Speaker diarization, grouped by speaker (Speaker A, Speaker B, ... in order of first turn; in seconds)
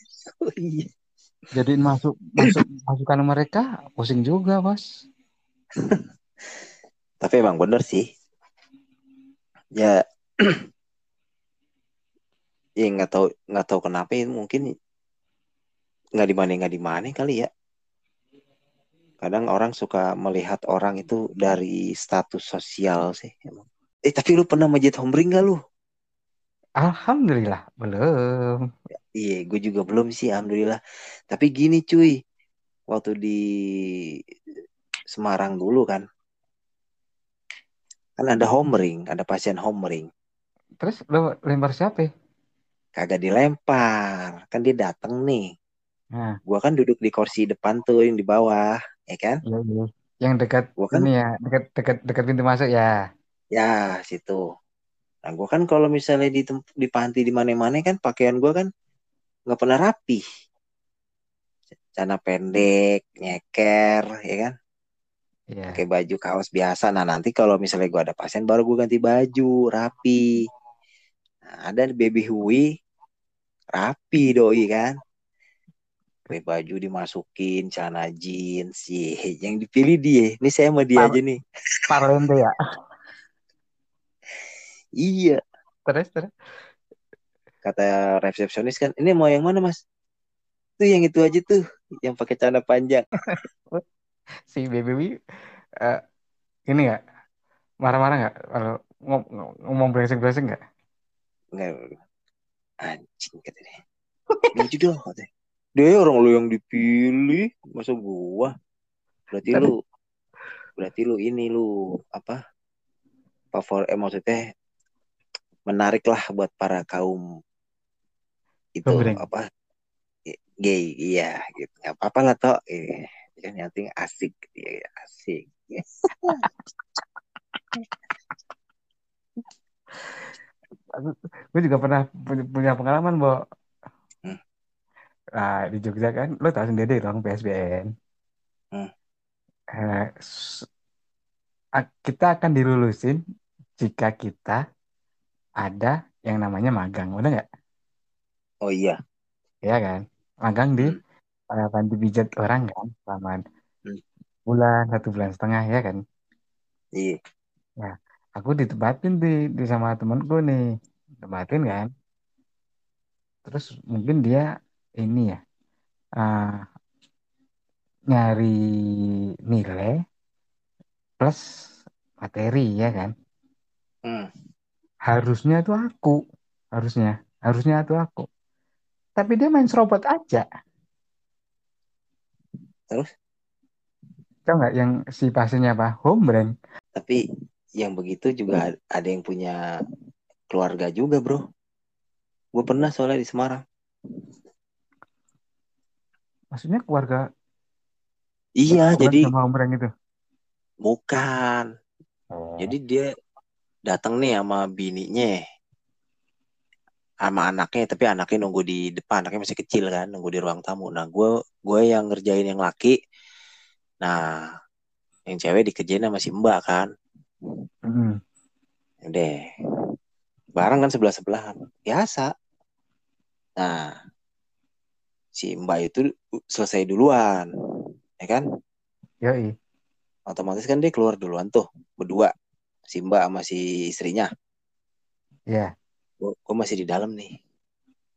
Speaker A: 0.4-0.9, 7.2-8.0, 9.8-10.6, 12.8-14.6, 16.2-17.5, 19.2-25.6, 29.2-30.8, 31.3-32.1, 32.9-33.4, 35.1-36.0, 38.2-40.1, 43.0-45.4, 46.5-49.4, 50.8-51.1, 53.5-54.4, 55.2-58.7, 59.5-60.2, 62.0-64.5, 65.8-70.2, 71.5-72.6, 73.8-74.9, 76.3-81.4, 85.0-85.4, 87.6-89.8, 90.8-93.1, 101.5-101.9, 102.8-103.8, 104.5-108.5, 109.3-109.7, 110.8-112.4, 113.5-114.4, 115.7-117.2, 118.8-119.4, 120.3-126.4, 148.7-149.0, 187.8-189.6, 190.5-191.4, 192.6-193.6, 198.6-199.3, 200.8-201.7, 202.6-203.1, 203.9-205.4, 207.2-212.9, 215.3-216.9, 220.6-222.3, 223.6-223.9, 225.4-226.0, 226.5-227.5, 230.3-232.3, 232.9-234.3, 236.2-237.3
Speaker B: 1.5-4.8, 26.8-28.6, 40.8-42.1, 49.5-52.9, 65.5-65.8, 81.9-82.6, 85.9-86.3, 94.5-95.1, 96.7-97.0, 97.8-100.6, 118.8-119.2, 130.9-133.3, 135.4-137.9, 139.8-140.7, 141.8-143.2, 143.8-144.6, 145.6-147.4, 149.7-150.9, 151.6-153.4, 154.5-156.0, 157.8-160.6, 161.2-161.9, 163.4-164.5, 165.0-165.4, 166.2-166.7, 168.1-169.0, 169.5-170.0, 172.2-173.1, 175.1-176.2, 176.8-178.3, 179.2-180.4, 184.5-186.5, 196.5-197.2, 199.0-199.9, 202.3-202.7, 217.9-218.2, 229.2-229.5